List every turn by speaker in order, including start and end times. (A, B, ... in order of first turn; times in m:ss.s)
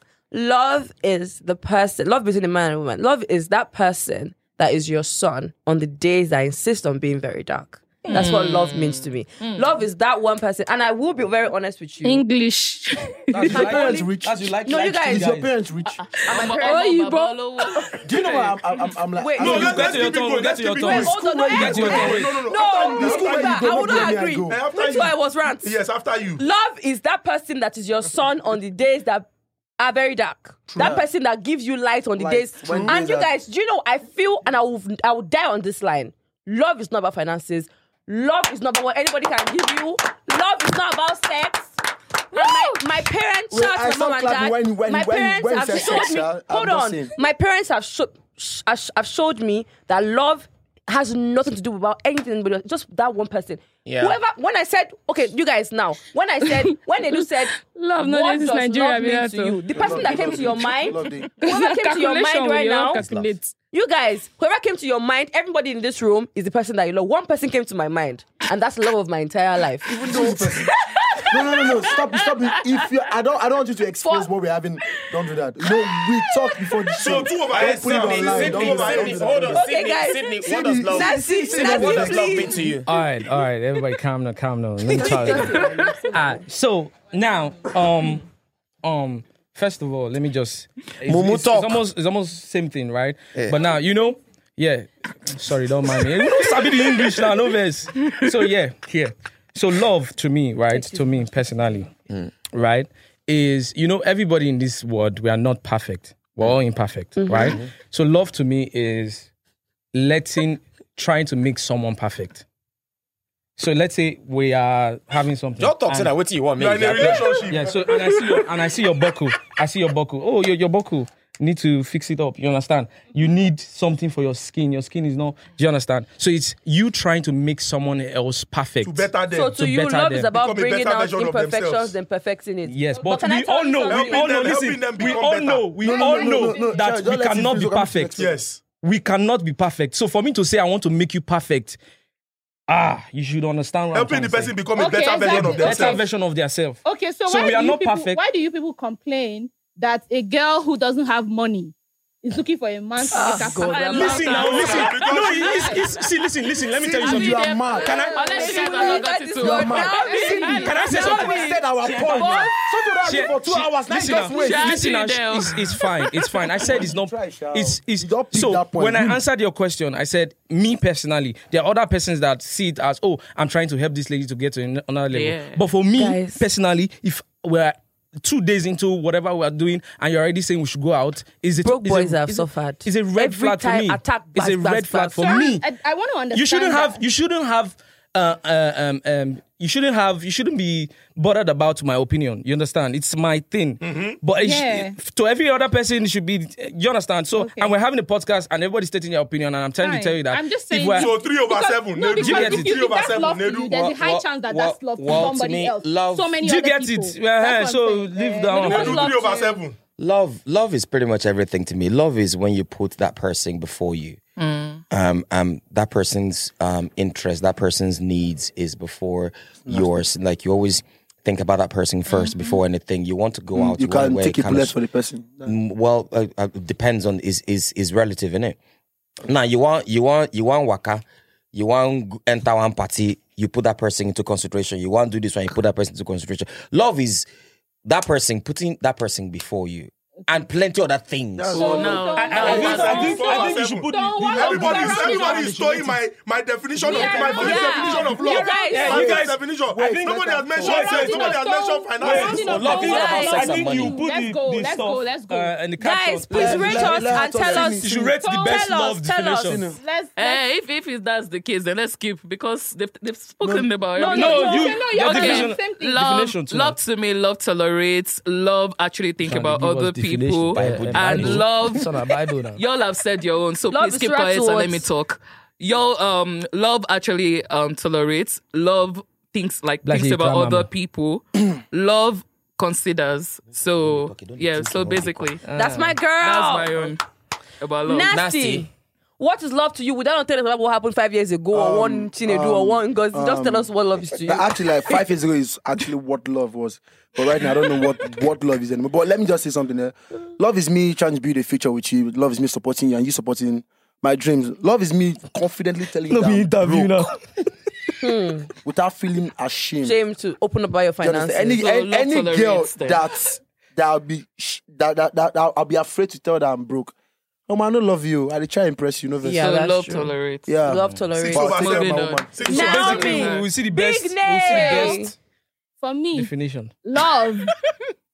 0:00.3-0:12.2 A
0:08.1-0:09.7 B
0:12.0-0:13.6 C
0:13.3-0:15.5 D
0:13.4-0:16.0 E
0:13.5-0:15.3 A
0:15.9-0:16.9 A
0:16.3-0:18.0 C
0:16.3-0:18.6 B
0:18.0-0:20.2 E
0:19.2-0:19.8 A
0:19.4-0:22.4 D
0:19.4-0:26.4 F
0:20.9-0:24.6 E
0:20.9-0:25.8 A
0:26.4-0:41.8 A
0:30.7-0:31.1 E
0:32.2-0:33.3 E
0:32.6-0:33.0 F
0:42.3-1:03.0 A
0:42.3-0:42.9 C
0:43.5-0:47.1 E
0:53.8-0:54.2 G
0:56.4-1:00.1 C
0:59.7-1:01.3 E
1:01.4-1:03.5 C
1:02.9-1:03.3 G
1:03.7-1:10.0 A
1:09.8-1:19.7 E
1:11.0-1:12.9 B
1:17.0-1:19.4 F
1:17.4-1:22.9 G
1:19.5-1:22.7 A
1:20.4-1:22.6 E
1:22.8-1:28.2 D
1:24.9-1:26.4 A
1:25.1-1:26.0 B
1:28.8-1:41.9 D
1:31.0-1:31.9 G
1:33.4-1:33.7 G
1:42.5-1:49.3 D
1:47.2-1:47.6 A
1:47.4-1:47.7 G
1:49.9-1:52.4 D
1:53.6-1:56.1 D
1:55.6-1:57.5 G
1:56.6-1:57.8 F
1:57.5-2:10.3 D
2:08.8-2:09.6 F
2:09.3-2:14.6 A
2:10.3-2:12.0 F
2:12.6-2:18.2 D
2:13.0-2:13.3 C
2:13.8-2:15.8 F
2:15.8-2:16.9 C
2:15.8-2:18.4 E
2:18.2-2:18.6 F
2:18.8-2:21.8 D
2:22.7-2:24.7 D
2:23.9-2:26.0 F
2:24.7-2:26.1 C
2:25.2-2:28.2 D
2:26.8-2:36.0 C
2:33.1-2:34.5 A
2:33.6-2:35.5 B
2:33.9-2:38.7 D
2:34.3-2:35.8 F
2:36.7-2:38.0 E
2:37.0-2:40.2 B
2:37.7-2:41.5 A
2:38.2-2:39.0 C
2:39.4-2:44.8 E
2:39.8-2:41.2 C
2:40.4-2:42.5 D
2:42.1-2:42.5 C
2:43.0-3:05.7 D
2:44.3-2:45.8 B
2:46.7-2:49.2 E
2:55.1-2:55.6 B
2:55.9-2:56.4 A
3:01.6-3:05.4 A
3:05.2-3:07.0 C
3:06.3-3:21.1 D
3:13.8-3:14.2 F
3:14.4-3:15.0 C
3:17.4-3:17.7 C
3:19.8-3:29.1 C
3:21.0-3:23.9 F
3:22.2-3:23.0 D
3:23.8-3:26.4 G
3:26.4-3:29.1 D
3:28.6-3:29.6 A
3:28.6-3:29.8 F
3:30.0-3:34.2 G
3:34.4-3:34.8 B
3:34.9-3:44.8 G
3:42.1-3:42.6 B
3:43.5-3:45.5 E
3:45.4-3:48.6 G
3:49.3-3:57.3 G
3:57.9-4:01.7 G
4:01.4-4:03.0 E
4:01.5-4:03.2 B
4:01.5-4:05.6 C
4:02.2-4:06.0 D
4:02.3-4:12.8 F
4:02.5-4:03.1 A
4:04.8-4:05.6 B
4:06.8-4:10.8 E
4:06.9-4:07.8 D
4:06.9-4:08.7 C
4:07.4-4:09.2 A
4:08.6-4:11.4 D
4:10.6-4:15.7 C
4:12.0-4:19.6 D
4:12.4-4:14.0 G
4:12.7-4:13.6 A
4:15.8-4:17.8 A
4:16.3-4:18.2 E
4:18.1-4:18.7 C
4:18.4-4:19.6 A
4:19.4-4:19.8 E
4:19.6-4:20.4 C
4:20.2-4:31.9 B
4:23.4-4:23.7 E
4:24.0-4:24.8 A
4:24.0-4:26.1 C
4:24.1-4:26.8 D
4:29.2-4:32.6 D
4:30.5-4:31.6 G
4:32.6-4:45.4 B
4:33.7-4:34.9 A
4:39.8-4:40.7 D
4:43.6-4:45.4 G
4:45.4-4:46.0 D
4:45.5-4:46.9 A
4:46.2-4:47.0 B
4:47.6-4:48.1 B
4:47.9-4:55.0 A
4:48.1-4:48.7 G
4:51.5-5:07.1 E
5:06.1-5:08.1 D
5:08.0-5:08.5 A
5:08.6-5:10.0 E
5:09.8-5:11.6 A
5:11.0-5:16.9 E
5:11.6-5:13.0 B
5:17.5-5:19.5 E
5:19.2-5:21.7 A
5:19.3-5:20.5 B
5:20.5-5:22.8 E
5:21.2-5:23.3 F
5:21.4-5:23.5 B
5:22.5-5:25.1 A
5:22.6-5:25.1 D
5:24.4-5:25.1 C
5:25.8-5:26.3 C
5:26.2-5:26.7 D
5:26.8-5:27.5 C